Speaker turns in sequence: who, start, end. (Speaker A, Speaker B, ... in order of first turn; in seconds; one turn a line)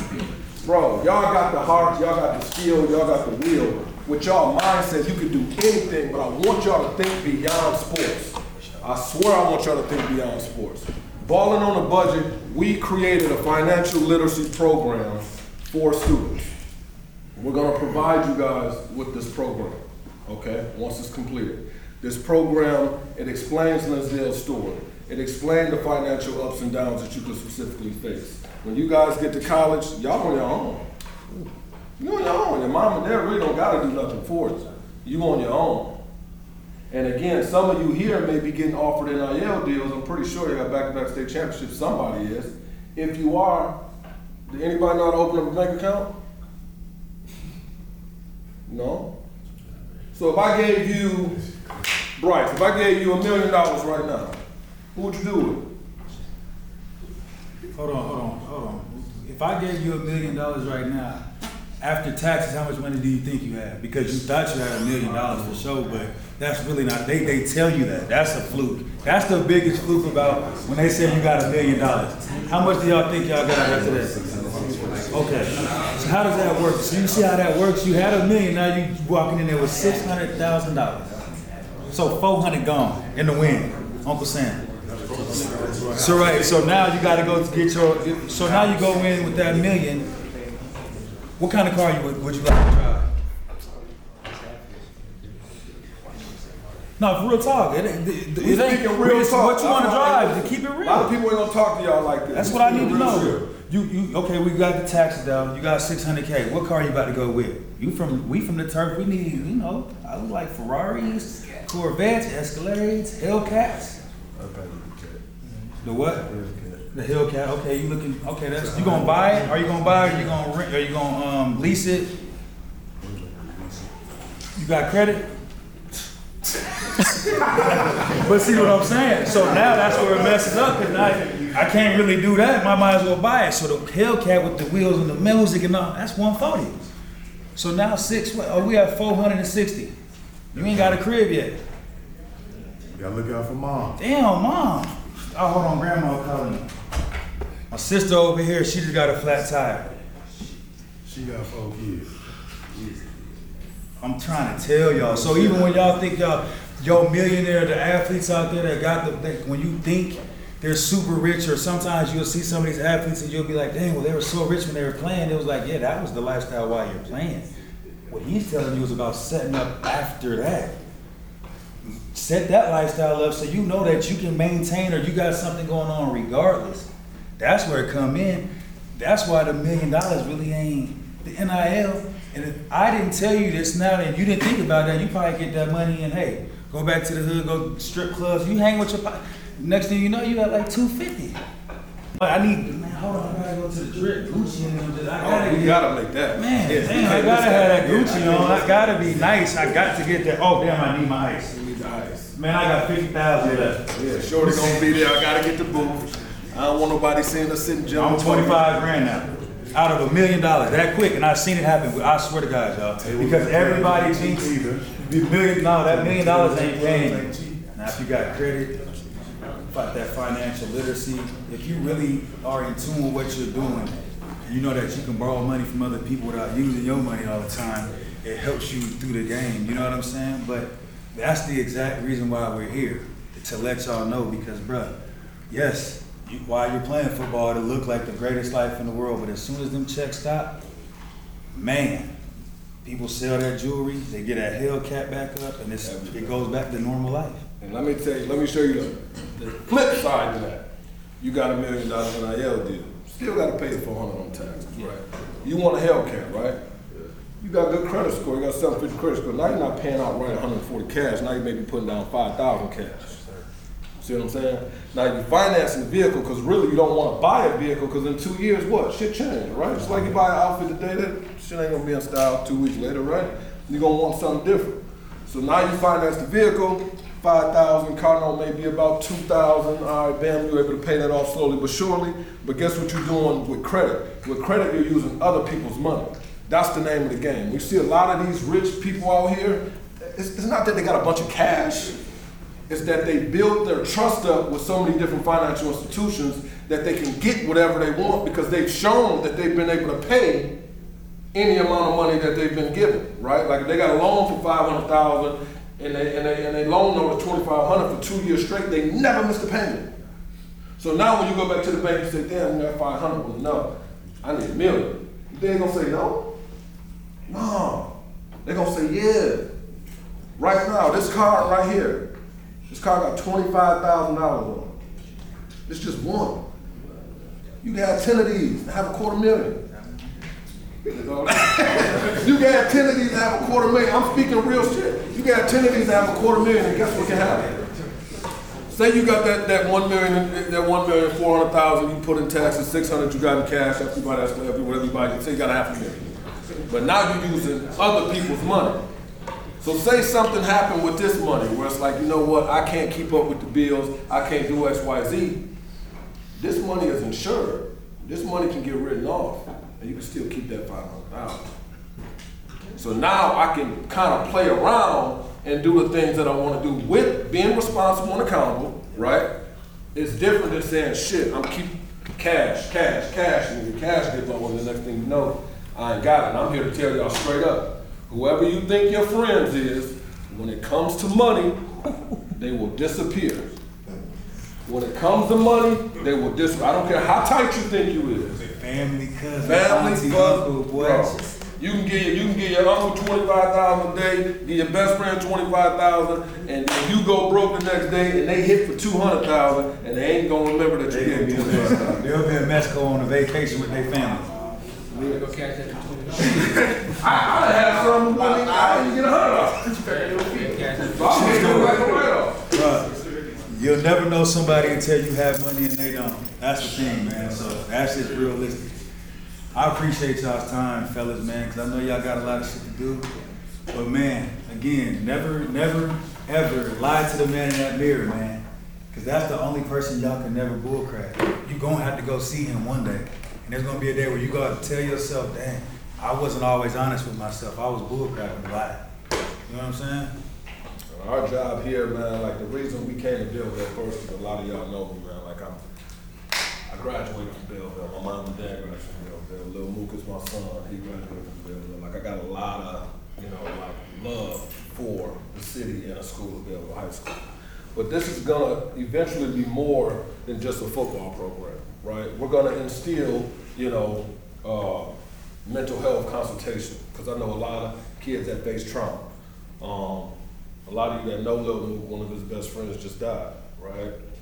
Speaker A: 0.6-16.5
Speaker A: 17.4-30.9
Speaker A: 32.0-36.0
Speaker A: 36.9-43.8
Speaker A: 44.5-46.1
Speaker A: 48.7-49.1
Speaker A: 50.1-51.4
Speaker A: 52.2-54.4
Speaker A: 55.0-55.7
Speaker B: 57.7-61.2
Speaker B: 61.8-74.3
Speaker C: 74.2-75.0
Speaker B: 75.1-81.1
Speaker B: 81.9-84.6
Speaker C: 84.9-86.5
Speaker B: 85.9-90.1
Speaker B: 91.4-93.1
Speaker D: 94.2-95.4
Speaker B: 97.0-101.1
Speaker A: 98.4-103.5
Speaker B: 102.3-114.0
Speaker C: 114.4-115.2
Speaker B: 115.8-116.3
Speaker C: 116.2-116.8
Speaker B: 116.9-122.1
Speaker C: 118.6-119.1
Speaker C: 123.0-123.9
Speaker B: 124.5-125.3
Speaker B: 126.5-136.9
Speaker C: 127.6-128.2
Speaker C: 130.0-130.4
Speaker B: 137.6-139.9
Speaker B: 140.5-141.6
Speaker C: 140.6-141.0
Speaker C: 142.9-144.0
Speaker B: 144.0-146.7
Speaker B: 147.7-149.9
Speaker C: 151.0-152.2
Speaker C: 152.7-153.2
Speaker B: 154.0-167.5
Speaker C: 155.2-155.6
Speaker B: 168.1-170.7
Speaker B: 171.8-178.4
Speaker B: 179.0-191.4
Speaker B: 192.2-201.5
Speaker A: 195.2-199.1
Speaker A: 201.5-202.4
Speaker B: 202.3-203.8
Speaker A: 203.4-208.8
Speaker B: 204.4-204.9
Speaker B: 207.9-218.9
Speaker C: 213.0-214.9
Speaker C: 215.9-217.6
Speaker B: 219.7-234.9
Speaker B: 235.5-240.6
Speaker B: 241.5-242.1
Speaker B: 242.8-247.4
Speaker A: 245.8-246.5
Speaker A: 247.6-250.7
Speaker A: 251.2-263.4
Speaker A: 264.0-292.0
Speaker A: 292.7-300.5
Speaker A: 301.3-309.9
Speaker A: 310.8-313.7
Speaker A: 314.2-316.3
Speaker A: 317.3-317.9
Speaker A: 318.4-319.4
Speaker A: 320.4-322.1
Speaker A: 322.7-324.8
Speaker A: 325.7-326.4
Speaker A: 327.6-329.6
Speaker A: 330.8-337.6
Speaker A: 338.7-346.1
Speaker A: 346.7-348.8
Speaker A: 349.6-355.4
Speaker A: 356.4-361.5
Speaker A: 362.8-369.3
Speaker A: 369.9-381.7
Speaker A: 382.3-383.5
Speaker A: 384.6-388.4
Speaker B: 388.4-391.2
Speaker A: 389.4-402.1
Speaker B: 400.9-404.3
Speaker D: 404.9-408.9
Speaker A: 406.9-409.8
Speaker D: 409.6-412.0
Speaker A: 410.8-412.4
Speaker B: 411.1-412.0
Speaker B: 412.5-412.9
Speaker B: 413.5-418.7
Speaker B: 419.5-423.1
Speaker B: 423.7-438.8
Speaker B: 439.5-440.1
Speaker A: 440.9-445.6
Speaker A: 446.7-457.2
Speaker A: 457.8-464.9
Speaker A: 465.4-469.1
Speaker A: 469.6-470.1
Speaker A: 470.7-473.9